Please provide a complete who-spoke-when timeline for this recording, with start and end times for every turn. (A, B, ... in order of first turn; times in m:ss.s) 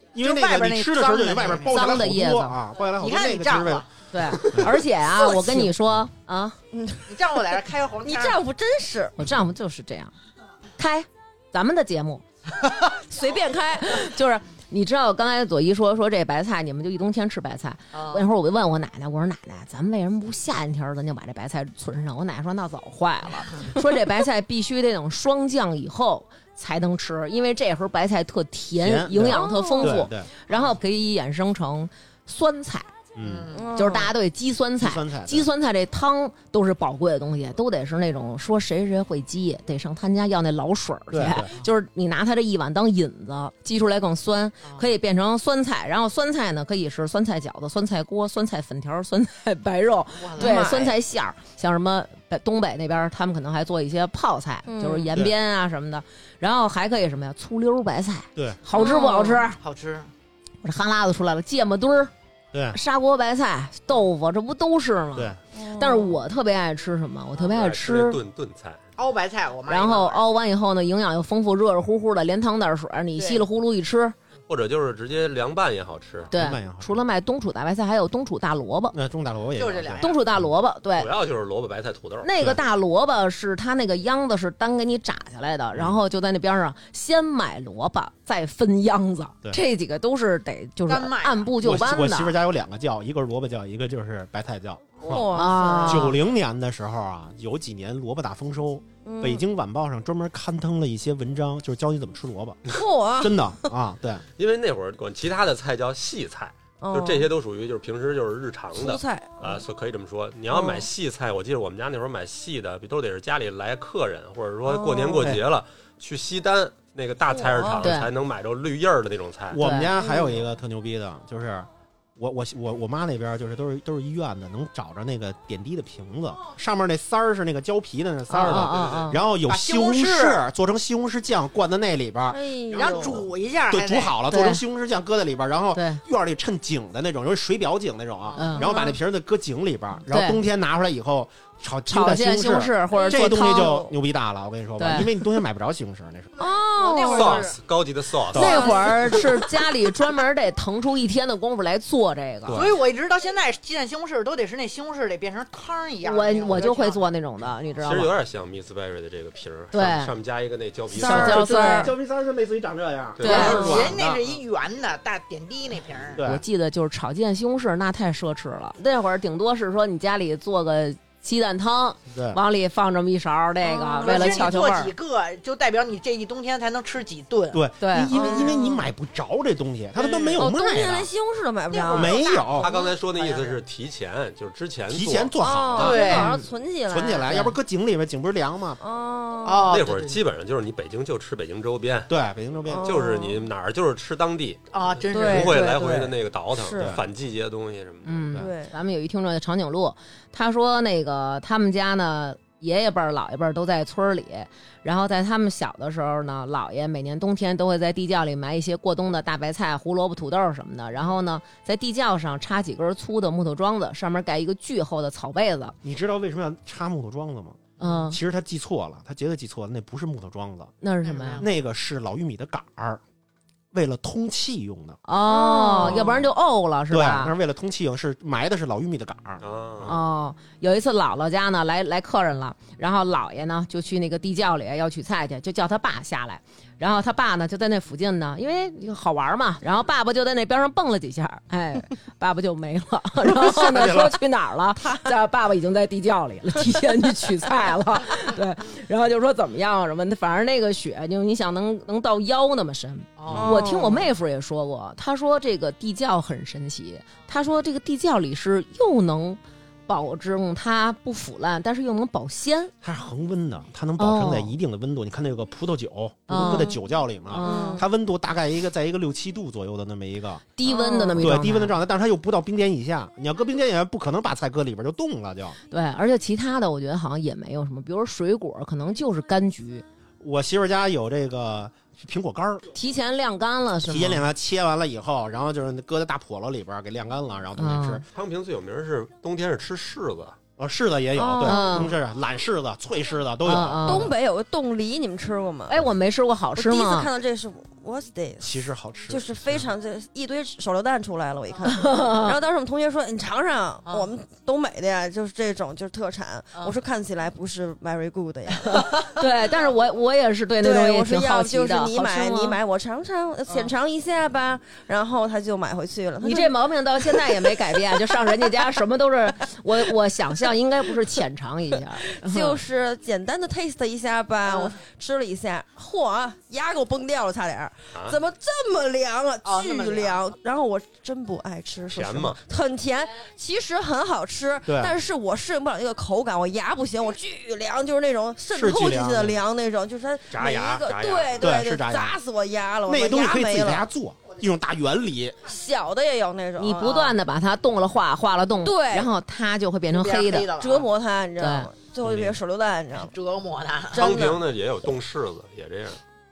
0:00.1-0:04.8 A
0:00.2-0:02.0 B
0:01.7-0:02.6 C
0:03.0-0:03.9 B
0:04.1-0:06.6 C
0:06.7-0:07.1 D
0:07.1-0:08.4 B
0:08.0-0:09.2 D
0:09.2-0:10.1 C
0:10.8-0:12.2 C
0:12.9-0:14.1 D
0:13.6-0:32.9 C
0:17.9-0:18.2 B
0:28.8-0:30.3 A
0:29.3-0:30.0 D
0:33.1-0:33.5 A
0:33.2-0:33.7 B
0:33.5-0:34.1 D
0:33.7-0:59.6 C
0:34.8-0:35.5 A
0:41.1-0:41.5 A
0:50.2-0:50.7 B
0:50.4-0:51.0 D
0:54.6-0:55.1 D
0:58.7-0:59.5 D
0:59.6-1:00.1 B
1:00.6-1:02.1 C
1:02.7-1:08.2 C
1:05.5-1:06.2 D
1:07.4-1:08.8 E
1:09.0-1:10.2 B
1:09.7-1:14.1 C
1:13.2-1:13.4 B
1:14.5-1:16.3 E
1:16.3-1:19.0 C
1:16.3-1:17.0 A
1:18.9-1:20.5 A
1:19.6-1:20.2 B
1:20.0-1:21.1 C
1:21.0-1:22.4 E
1:22.2-1:32.4 C
1:30.9-1:31.5 B
1:31.6-1:35.3 A
1:35.0-1:36.0 D
1:35.3-1:36.2 C
1:35.8-1:42.7 A
1:39.0-1:39.4 D
1:42.7-1:43.4 D
1:43.2-1:44.2 A
1:44.4-1:59.6 E
1:46.8-1:47.3 D
1:48.7-1:49.6 D
1:50.5-1:50.8 D
1:54.6-1:55.4 D
1:57.3-1:58.0 D
1:57.8-1:58.1 C
1:59.5-2:26.3 A
1:59.5-1:59.9 C
1:59.9-2:00.4 D
2:08.3-2:09.2 C
2:08.7-2:09.0 E
2:09.5-2:10.4 B
2:12.3-2:13.3 D
2:12.7-2:14.1 B
2:14.3-2:14.6 C
2:15.7-2:16.0 C
2:18.3-2:18.9 B
2:18.4-2:18.7 C
2:18.6-2:18.9 D
2:20.1-2:20.4 C
2:21.9-2:23.8 C
2:22.9-2:23.9 D
2:24.8-2:25.1 C
2:26.4-2:27.6 B
2:26.4-2:27.5 D
2:27.1-2:28.7 E
2:28.3-2:28.8 A
2:28.3-2:32.6 C
2:28.4-2:29.3 B
2:32.4-2:32.8 A
2:32.5-2:37.0 B
2:36.0-2:38.1 C
2:37.8-2:41.5 E
2:39.7-2:40.1 C
2:40.9-2:41.9 D
2:41.0-2:41.9 C
2:41.0-2:44.2 A
2:43.2-2:44.0 E
2:43.2-2:43.7 C
2:43.2-2:46.2 B
2:43.3-2:43.9 D
2:46.2-2:46.4 A
2:46.2-2:54.9 C
2:52.1-2:52.4 A
2:53.6-2:54.5 D
2:54.0-2:57.6 B
2:57.5-3:01.1 A
2:57.8-2:58.4 C
2:58.1-2:58.8 D
3:00.0-3:00.5 B
3:00.4-3:02.2 D
3:01.7-3:03.6 B
3:01.9-3:02.7 A
3:02.6-3:05.4 E
3:04.9-3:06.3 A
3:05.4-3:07.6 D
3:05.8-3:06.3 B
3:06.0-3:06.4 C
3:06.9-3:08.8 A
3:08.8-3:09.7 D
3:09.4-3:10.2 B
3:09.7-3:12.1 E
3:12.1-3:12.9 A
3:12.7-3:13.5 D
3:12.8-3:18.3 E
3:14.7-3:16.1 B
3:15.1-3:17.0 D
3:16.8-3:17.0 A
3:18.0-3:35.8 C
3:18.4-3:18.7 D
3:35.8-3:40.7 A
3:37.8-3:38.2 C
3:40.8-3:41.4 C
3:41.0-3:41.5 B
3:41.4-3:43.0 A
3:43.7-3:45.0 A
3:45.0-3:47.3 C
3:45.2-3:46.1 D
3:46.9-3:50.0 A
3:49.4-3:50.0 E
3:49.8-4:22.7 C
4:03.2-4:04.2 A
4:13.2-4:13.6 B
4:13.3-4:14.1 D
4:22.8-4:30.4 A
4:24.0-4:24.5 C
4:26.3-4:26.8 C
4:27.3-4:27.8 C
4:27.4-4:27.9 D
4:30.6-4:31.8 C
4:30.6-4:31.3 D
4:31.2-4:35.6 A
4:35.7-4:39.8 C
4:40.2-4:42.7 A
4:42.7-4:44.3 C
4:43.8-4:48.0 A
4:47.6-4:48.0 C
4:48.1-4:50.4 E
4:50.6-4:54.1 A
4:51.2-4:51.9 D
4:51.4-4:52.0 C
4:53.4-4:54.1 C
4:53.8-4:55.8 D
4:55.7-4:57.1 C
4:56.6-5:08.9 D
4:58.4-4:59.6 A
5:01.6-5:02.4 C
5:08.8-5:12.6 C
5:10.6-5:18.6 D
5:16.2-5:22.6 C
5:22.1-5:43.8 D
5:29.4-5:30.2 B
5:31.9-5:32.4 E
5:34.7-5:34.9 A
5:38.5-5:39.4 A
5:40.3-5:41.5 E
5:41.4-5:42.2 A
5:42.8-5:45.4 A
5:45.4-5:47.2 D
5:46.6-5:50.5 C
5:48.6-5:49.1 D
5:49.9-5:50.9 B
5:50.6-5:53.1 D
5:51.4-5:51.7 C
5:52.0-5:52.4 E
5:53.1-5:54.4 B
5:53.9-5:56.0 E